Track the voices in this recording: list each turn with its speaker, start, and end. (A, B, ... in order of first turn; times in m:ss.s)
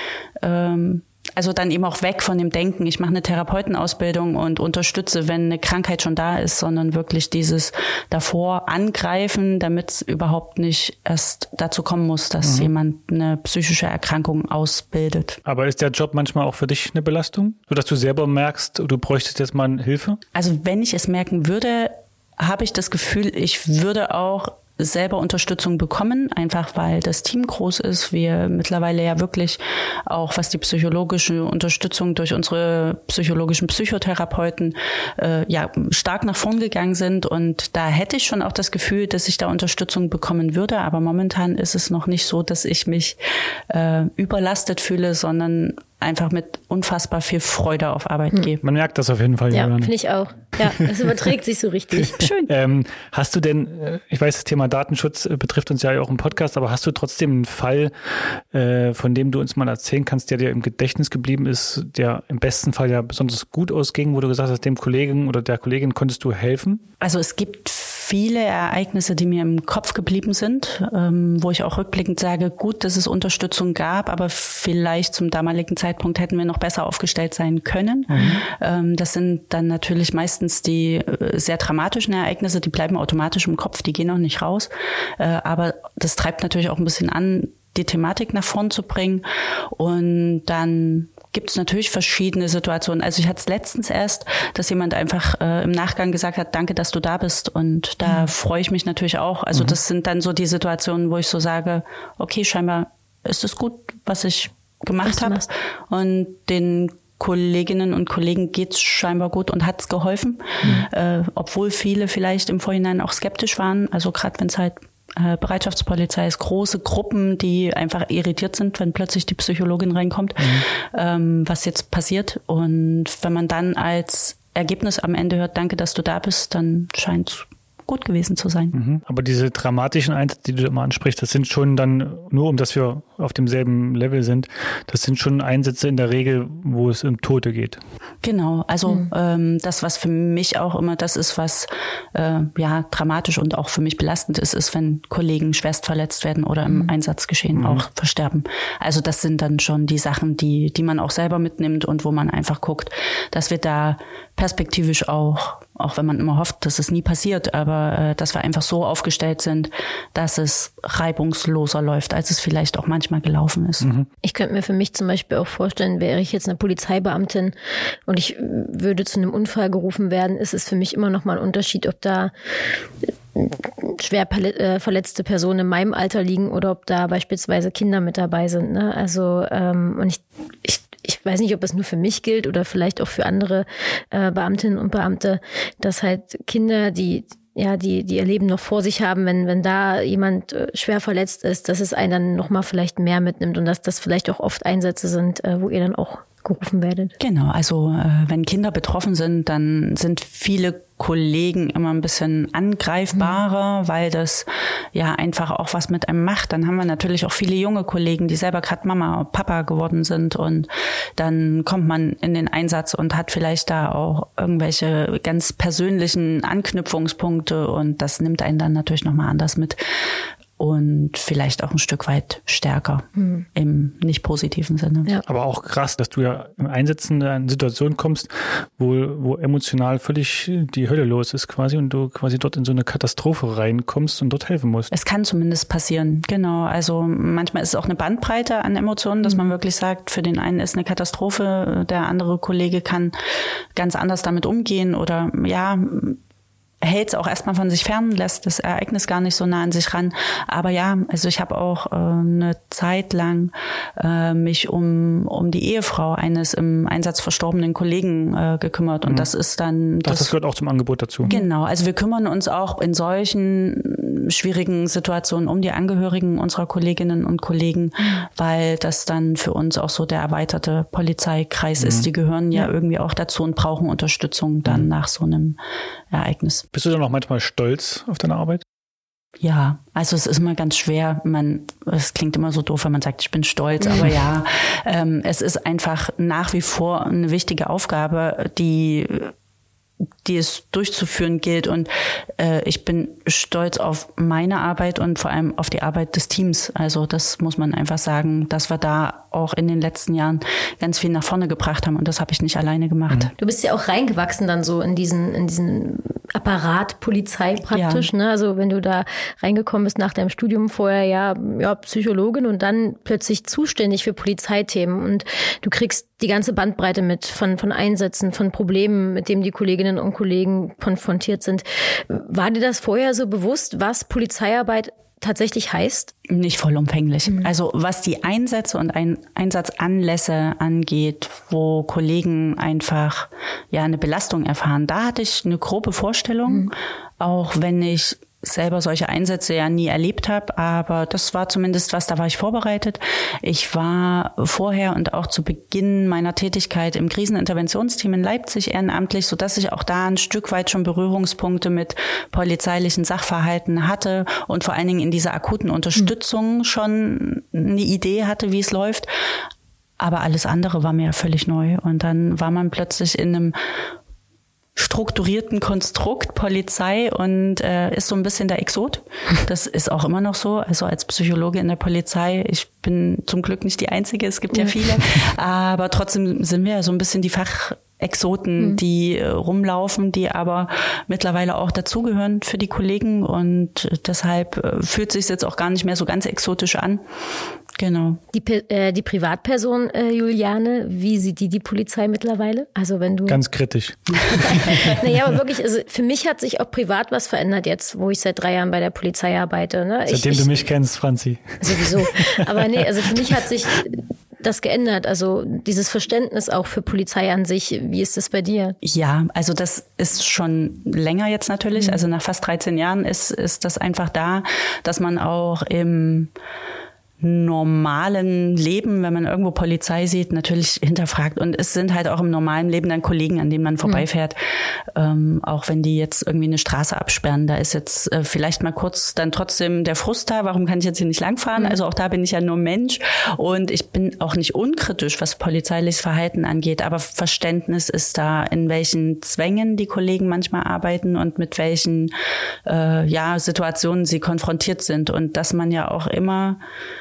0:00.4-0:15.4 A
0:12.4-0:12.7 B
0:15.4-0:20.2 B
0:20.3-0:43.2 A
0:43.7-0:48.6 A
0:48.6-0:49.9 B
0:49.5-0:52.3 C
0:50.6-0:51.2 B
0:52.0-0:52.5 A
0:52.5-0:57.9 B
0:58.5-1:06.8 B
1:07.0-2:08.7 A
1:18.1-1:18.4 B
1:45.0-1:45.4 C
2:00.4-2:00.6 B
2:08.7-2:17.8 B
2:18.2-2:43.9 A
2:26.6-2:26.9 C
2:27.6-2:27.8 B
2:43.8-2:44.1 B
2:44.2-2:47.5 C
2:48.0-2:52.3 C
2:53.3-3:17.1 C
3:17.2-3:39.8 A
3:40.6-3:45.1 A
3:43.2-3:43.4 C
3:45.2-3:54.9 B
3:54.9-4:03.1 A
4:03.8-4:06.2 A
4:06.8-4:20.3 A
4:20.0-4:21.3 B
4:21.3-4:21.5 C
4:21.3-4:35.6 A
4:28.0-4:28.2 C
4:31.8-4:32.1 B
4:36.1-4:36.6 A
4:36.7-4:38.6 B
4:39.4-4:49.3 A
4:50.2-5:03.3 A
5:03.4-5:26.1 C
5:07.7-5:08.1 A
5:26.3-5:59.1 A
6:00.0-6:03.6 A
6:04.8-6:27.0 A
6:27.8-6:28.2 A
6:28.3-6:33.4 C
6:33.3-6:35.0 B
6:34.4-6:40.5 C
6:40.1-6:42.4 B
6:41.6-6:48.8 C
6:48.8-6:56.3 A
6:51.8-6:52.0 C
6:57.2-7:04.4 A
7:05.0-7:22.1 A
7:11.6-7:11.8 C
7:22.6-7:26.6 A